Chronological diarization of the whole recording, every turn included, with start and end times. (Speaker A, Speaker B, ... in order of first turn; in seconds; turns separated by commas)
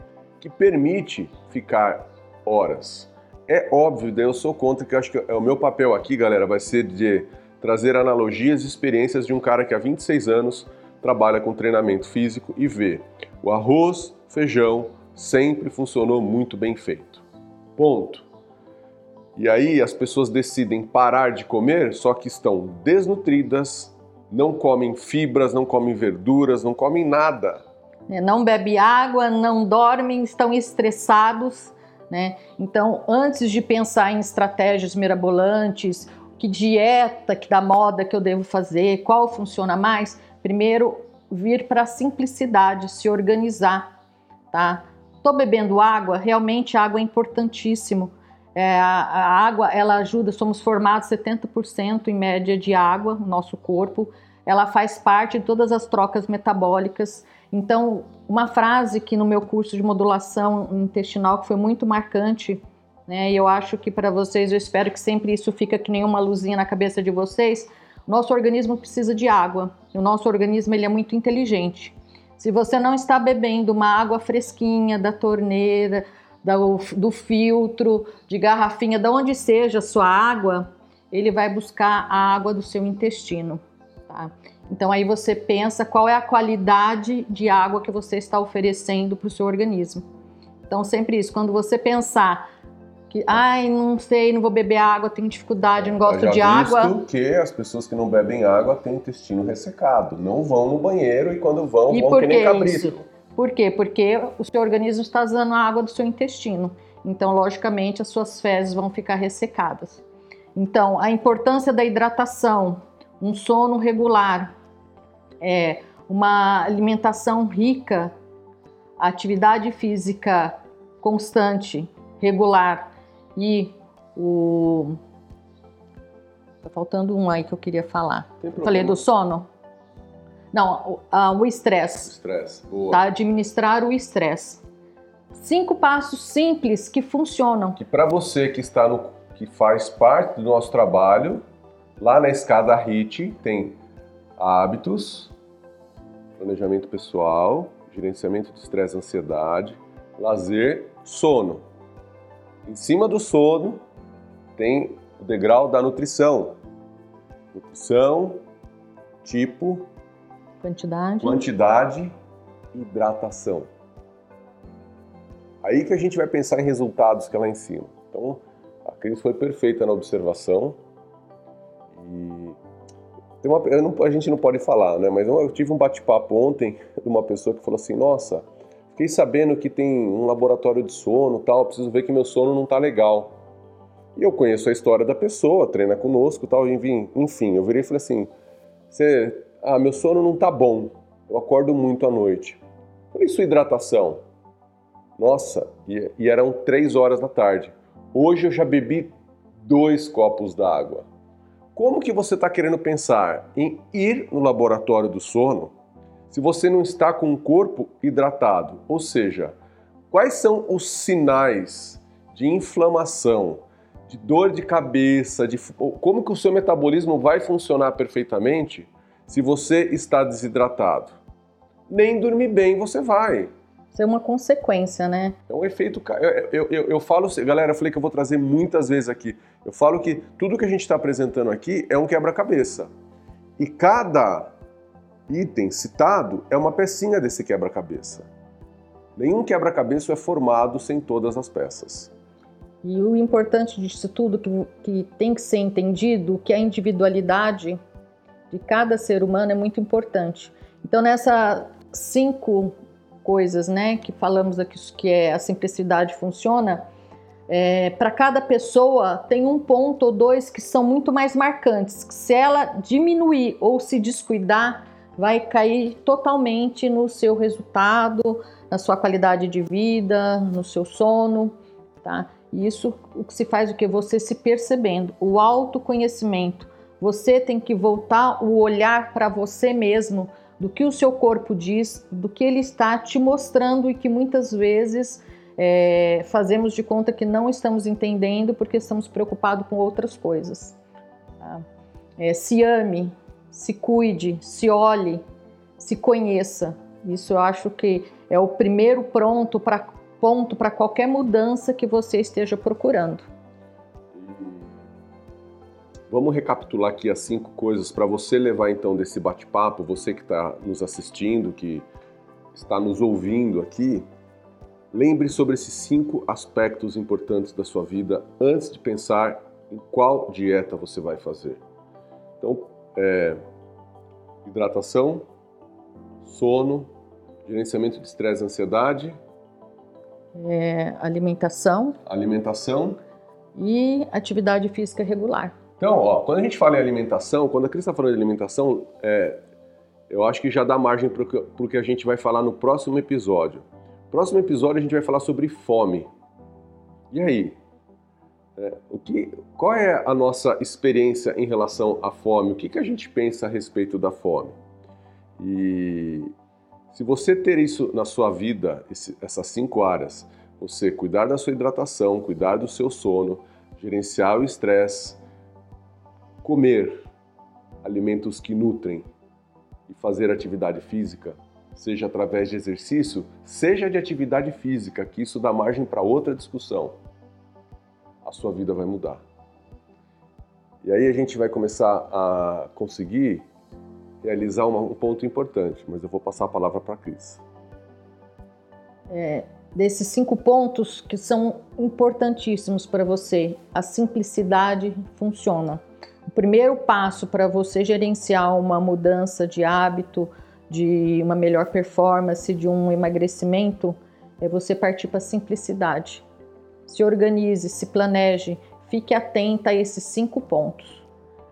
Speaker A: 0.4-17.2, Speaker A: 17.8-18.2, Speaker A: 19.4-27.6, Speaker B: 28.1-43.9, Speaker B: 44.5-90.0, Speaker B: 90.7-92.5, Speaker B: 93.1-97.0, Speaker A: 96.0-103.0, Speaker B: 101.9-110.0, Speaker B: 110.5-114.5, Speaker B: 115.4-118.1, Speaker B: 119.0-125.0, Speaker B: 126.6-129.5, Speaker A: 128.4-129.0, Speaker B: 130.5-132.1, Speaker A: 132.0-133.0, Speaker B: 132.9-134.6, Speaker B: 135.3-137.8, Speaker A: 137.8-141.4, Speaker A: 142.0-143.8, Speaker A: 144.4-145.3, Speaker A: 146.4-151.6, Speaker A: 152.7-153.8, Speaker A: 154.6-156.6, Speaker A: 157.5-158.4, Speaker A: 159.2-159.9, Speaker B: 160.6-161.4, Speaker A: 161.2-162.1, Speaker A: 162.7-163.7, Speaker A: 165.6-170.8, Speaker A: 171.9-172.6, Speaker A: 173.4-183.3, Speaker A: 184.2-188.3, Speaker A: 188.9-192.6, Speaker A: 193.1-194.2, Speaker A: 195.2-201.0, Speaker A: 201.7-205.7, Speaker A: 206.3-209.5, Speaker A: 210.1-221.2, Speaker A: 221.9-223.5, Speaker B: 223.9-225.3, Speaker A: 225.5-232.9, Speaker A: 233.6-234.5, Speaker A: 235.3-238.3, Speaker A: 239.2-242.1, Speaker B: 242.8-247.8, Speaker B: 248.5-256.8, Speaker B: 257.5-290.8, Speaker B: 292.2-295.2, Speaker B: 295.8-303.3, Speaker A: 304.1-304.8, Speaker A: 306.1-311.9, Speaker A: 312.5-314.0, Speaker A: 314.9-321.6, Speaker A: 322.4-323.4, Speaker A: 324.4-325.2, Speaker A: 326.2-326.9, Speaker A: 327.4-329.2, Speaker B: 330.3-332.0, Speaker A: 332.1-333.0, Speaker B: 333.6-335.6, Speaker A: 335.8-339.4, Speaker A: 340.1-346.1, Speaker A: 347.1-347.6, Speaker A: 348.6-354.6, Speaker A: 355.4-356.3, Speaker A: 356.9-365.2, Speaker A: 366.4-367.1, Speaker A: 367.8-369.1, Speaker A: 369.9-377.0, Speaker A: 378.2-379.2, Speaker A: 380.8-383.5, Speaker A: 384.2-387.4, Speaker B: 389.1-406.2, Speaker B: 406.9-411.1